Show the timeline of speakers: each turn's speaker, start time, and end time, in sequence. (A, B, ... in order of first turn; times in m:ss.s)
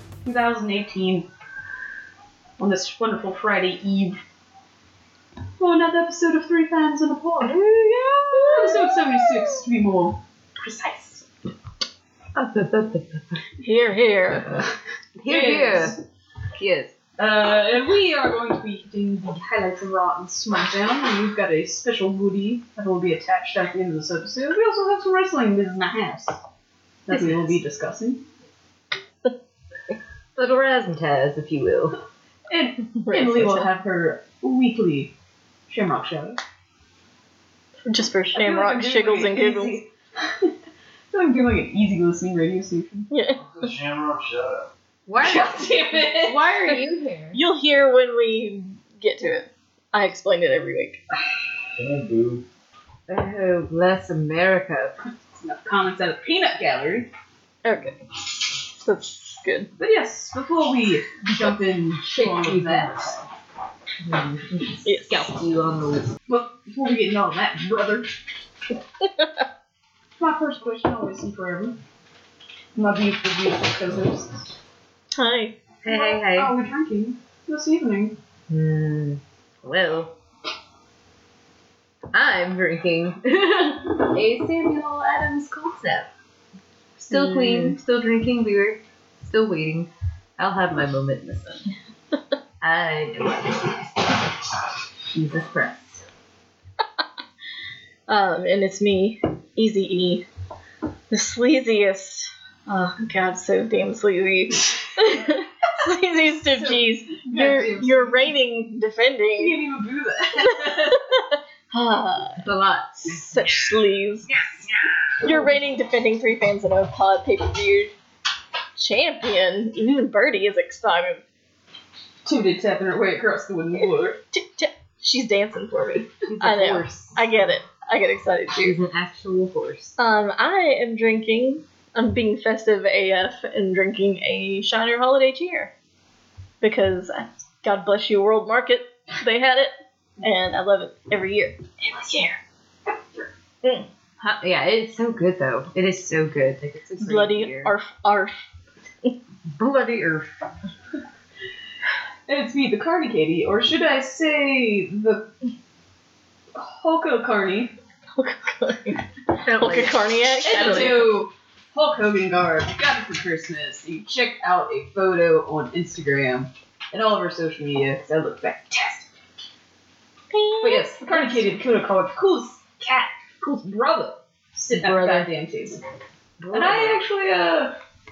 0:00.2-0:01.3 A
0:02.6-0:04.2 A
0:05.6-0:07.6 A
0:07.4-0:09.4 B
0:08.3-0:11.3 A
0:12.4-0:13.4 C
0:13.6-0:14.5 B
0:15.2-0:16.0 C
0:15.3-0:16.0 A
0:16.6-0:16.9 C
0:17.2-0:26.4 A
0:27.1-0:28.2 A
0:30.4-0:32.0 C
0:32.5-0:35.1 A
0:33.0-0:33.7 B
0:35.7-0:36.4 A
0:37.9-0:39.8 B
0:38.3-0:40.6 A
0:41.1-0:43.1 A
0:43.1-0:43.7 B
0:43.4-0:44.7 D
0:45.1-0:47.4 C
0:45.2-0:46.5 A
0:47.3-0:51.0 B
0:51.8-0:52.4 D
0:53.1-0:55.0 C
0:55.4-0:57.1 A
0:57.6-0:59.7 B
0:59.8-1:03.2 A
1:02.0-1:03.2 C
1:04.0-1:06.1 C
1:04.8-1:05.3 B
1:06.3-1:08.1 A
1:10.2-1:11.8 A
1:12.8-1:14.4 A
1:15.1-1:15.6 B
1:15.8-1:16.5 C
1:15.8-1:18.2 A
1:18.5-1:20.2 C
1:22.1-1:26.1 C
1:27.0-1:31.7 C
1:27.1-1:27.8 B
1:32.6-1:34.5 C
1:35.1-1:36.0 C
1:38.1-1:40.3 B
1:41.1-1:49.6 B
1:46.5-1:48.3 A
1:49.4-1:51.0 A
1:50.6-1:52.4 B
1:52.4-1:53.7 C
1:53.0-1:54.3 B
1:55.2-1:57.9 B
1:58.8-2:01.2 B
2:02.2-2:04.2 A
2:04.3-2:08.8 B
2:06.3-2:07.2 C
2:08.6-2:10.0 C
2:10.0-2:15.7 B
2:16.6-2:22.4 B
2:23.6-2:23.9 B
2:24.2-2:27.7 C
2:27.0-2:28.4 B
2:29.6-2:30.3 C
2:32.3-2:35.3 A
2:36.5-2:37.8 A
2:38.2-2:41.2 B
2:39.4-2:40.0 C
2:40.4-2:49.1 A
2:50.3-2:51.5 B
2:50.6-2:55.8 A
2:54.7-2:55.3 C
2:56.4-2:57.0 C
2:56.5-2:57.8 A